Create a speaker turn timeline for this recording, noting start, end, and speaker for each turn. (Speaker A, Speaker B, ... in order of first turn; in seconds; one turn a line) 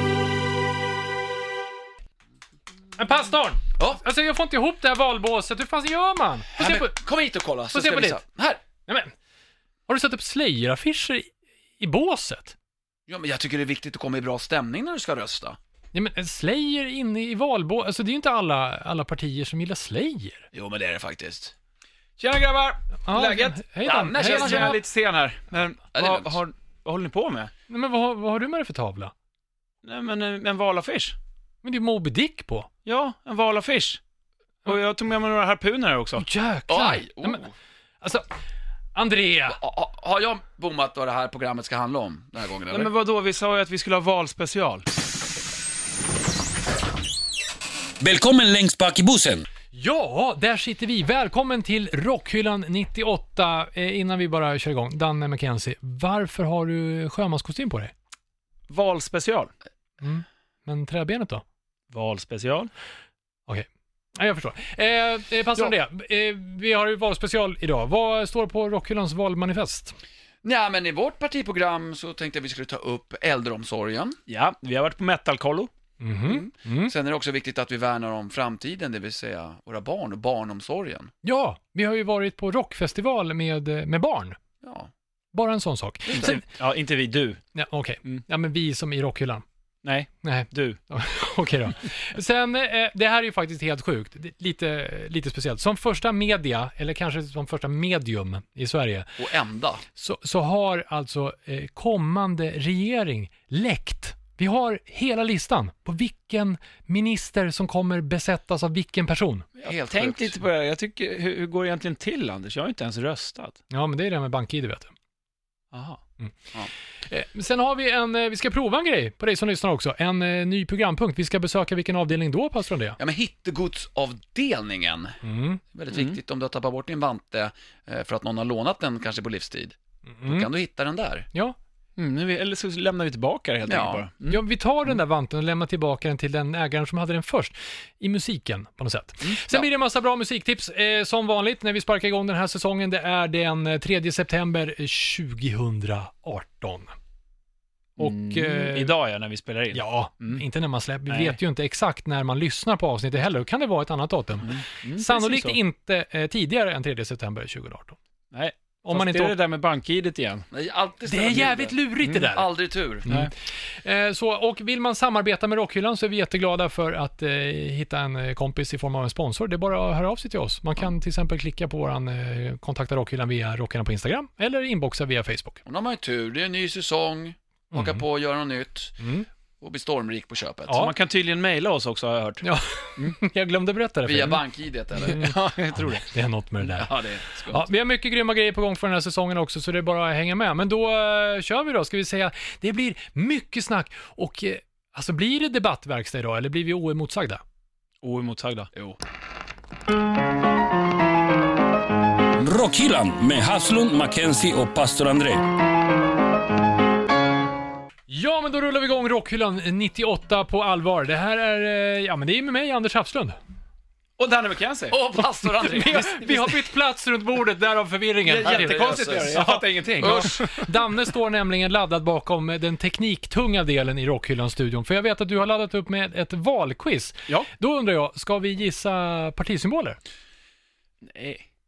Speaker A: 3.0-6.9
Speaker B: 6.5-8.6
Speaker A: 7.7-8.2
Speaker A: 8.8-9.1
Speaker A: 9.9-12.5
Speaker B: 13.1-15.6
Speaker A: 15.9-20.4
Speaker B: 20.5-21.5
Speaker C: 22.2-27.5
Speaker A: 23.1-24.8
Speaker B: 23.8-24.8
Speaker B: 25.9-26.4
Speaker A: 27.7-29.1
Speaker C: 29.8-31.1
Speaker A: 31.6-32.7
Speaker C: 32.8-34.0
Speaker C: 34.6-36.3
Speaker A: 36.2-37.4
Speaker B: 36.7-37.5
Speaker A: 38.9-39.6
Speaker B: 39.5-42.9
Speaker C: 42.7-44.9
Speaker D: 48.0-49.5
Speaker A: 49.7-57.9
Speaker C: 58.7-59.5
Speaker A: 60.0-61.4
Speaker C: 61.9-62.7
Speaker A: 63.5-70.0
Speaker B: 70.4-74.2
Speaker C: 74.3-75.7
Speaker A: 76.0-76.9
Speaker B: 76.2-81.1
Speaker A: 81.2-84.4
Speaker B: 84.6-84.9
Speaker A: 85.3-86.4
Speaker B: 86.1-86.4
Speaker C: 86.1-87.4
Speaker A: 87.5-89.4
Speaker C: 89.8-90.8
Speaker A: 90.2-99.2
Speaker B: 99.2-99.8
Speaker A: 100.0-109.5
Speaker C: 109.6-113.6
Speaker B: 109.6-110.4
Speaker A: 113.7-114.9
Speaker C: 115.7-116.0
Speaker A: 117.0-123.0
Speaker B: 123.0-125.2
Speaker A: 125.2-125.6
Speaker B: 125.7-131.3
Speaker C: 125.9-126.2
Speaker A: 130.2-130.5
Speaker C: 132.0-134.4
Speaker B: 133.7-134.0
Speaker A: 134.3-146.9
Speaker A: 148.0-148.9
Speaker C: 148.0-150.4
Speaker A: 149.7-158.0
Speaker C: 151.1-151.4
Speaker C: 154.4-155.6
Speaker C: 158.3-160.5
Speaker A: 158.8-159.3
Speaker B: 160.5-163.1
Speaker A: 161.1-162.5
Speaker A: 163.1-175.6
Speaker B: 175.7-179.0
Speaker A: 177.7-178.0
Speaker A: 179.0-179.2
Speaker B: 179.6-180.8
Speaker A: 180.7-180.9
Speaker C: 180.8-182.4
Speaker A: 182.4-184.4
Speaker B: 184.0-185.2
Speaker C: 185.0-186.0
Speaker A: 185.0-186.9
Speaker B: 186.8-187.7
Speaker A: 187.5-197.4
Speaker C: 198.0-198.9
Speaker D: 202.3-205.4
Speaker A: 208.1-213.3
Speaker C: 214.2-215.0
Speaker B: 214.9-216.1
Speaker A: 215.6-230.0
Speaker C: 215.8-216.6
Speaker C: 218.2-220.7
Speaker B: 218.4-219.4
Speaker B: 220.0-220.3
Speaker C: 231.0-231.4